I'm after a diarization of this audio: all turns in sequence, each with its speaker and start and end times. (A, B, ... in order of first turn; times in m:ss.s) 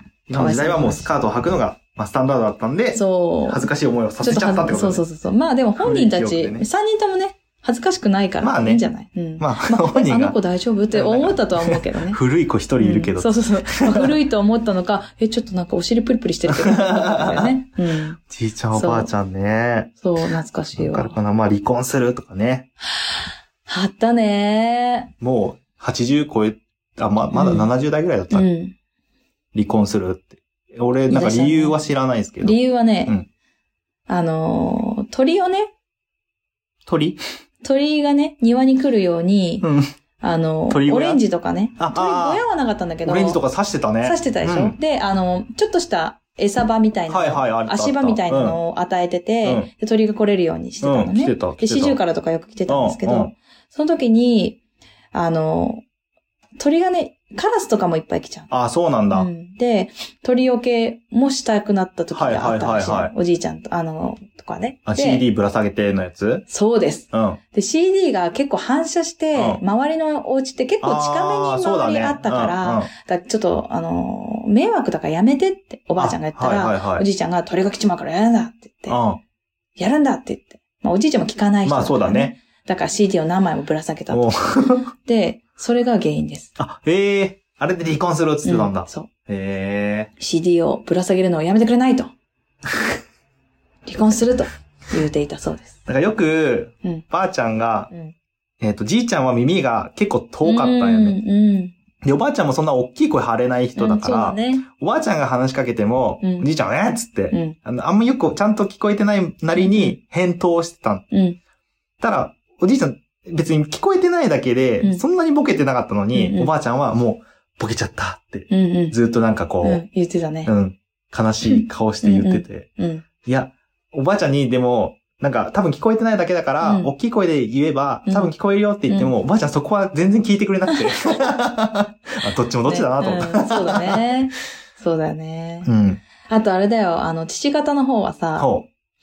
0:00.3-0:05.0 A
0:00.3-0:01.1 B
0:03.0-0:03.7 B
0:04.2-0:12.2 B
0:05.8-0:06.7 A
0:08.4-0:08.8 A
0:09.4-0:10.4 A
0:10.9-0:14.2 A
0:12.8-0:18.2 B
0:16.5-0:17.6 A
0:18.3-0:22.7 A
0:18.7-0:19.1 B
0:20.0-0:21.2 B
0:23.0-0:25.1 B
0:25.2-0:28.5 A
0:27.3-0:27.7 B
0:28.3-0:28.8 B
0:29.5-0:33.3 A
0:31.1-0:31.8 B
0:32.4-0:33.2 B
0:34.1-0:35.7 B
0:36.9-0:37.2 A
0:37.6-0:39.7 B
0:39.6-0:39.9 A
0:40.2-0:43.4 B
0:40.7-0:41.2 A
0:41.8-0:42.4 A
0:43.0-0:44.8 A
0:44.0-0:54.6 B
0:47.1-0:48.6 A
0:49.4-0:49.7 A
0:50.8-0:52.0 A
0:52.7-0:53.3 A
0:55.1-0:55.8 B
0:56.6-0:58.5 B
0:58.5-0:59.3 A
0:59.1-1:05.2 B
1:02.1-1:03.1 A
1:04.9-1:06.4 A
1:06.5-1:19.0 B
1:07.1-1:07.4 A
1:09.4-1:09.6 A
1:10.8-1:12.9 A
1:16.0-1:17.1 A
1:18.9-1:19.2 A
1:19.8-1:26.5 B
1:21.6-1:22.4 A
1:24.1-1:24.9 A
1:26.6-1:30.1 A
1:28.4-1:29.1 B
1:30.2-1:32.1 B
1:33.9-1:35.8 B
1:35.9-1:37.9 A
1:38.6-1:41.2 A
1:40.4-1:41.8 B
1:42.0-1:51.0 A
1:43.8-1:44.7 B
1:46.2-1:46.5 B
1:47.3-1:47.6 B
1:49.6-1:50.0 B
1:51.1-1:51.4 B
1:52.0-1:59.8 A
1:56.1-1:56.5 B
1:58.5-1:59.0 B
1:59.6-2:00.5 B
2:00.5-2:02.7 A
2:01.4-2:03.0 B
2:03.2-2:14.0 A
2:06.6-2:06.9 B
2:08.1-2:08.3 B
2:10.7-2:11.4 B
2:12.6-2:15.7 B
2:15.6-2:16.0 A
2:16.2-2:18.5 B
2:18.4-2:18.7 A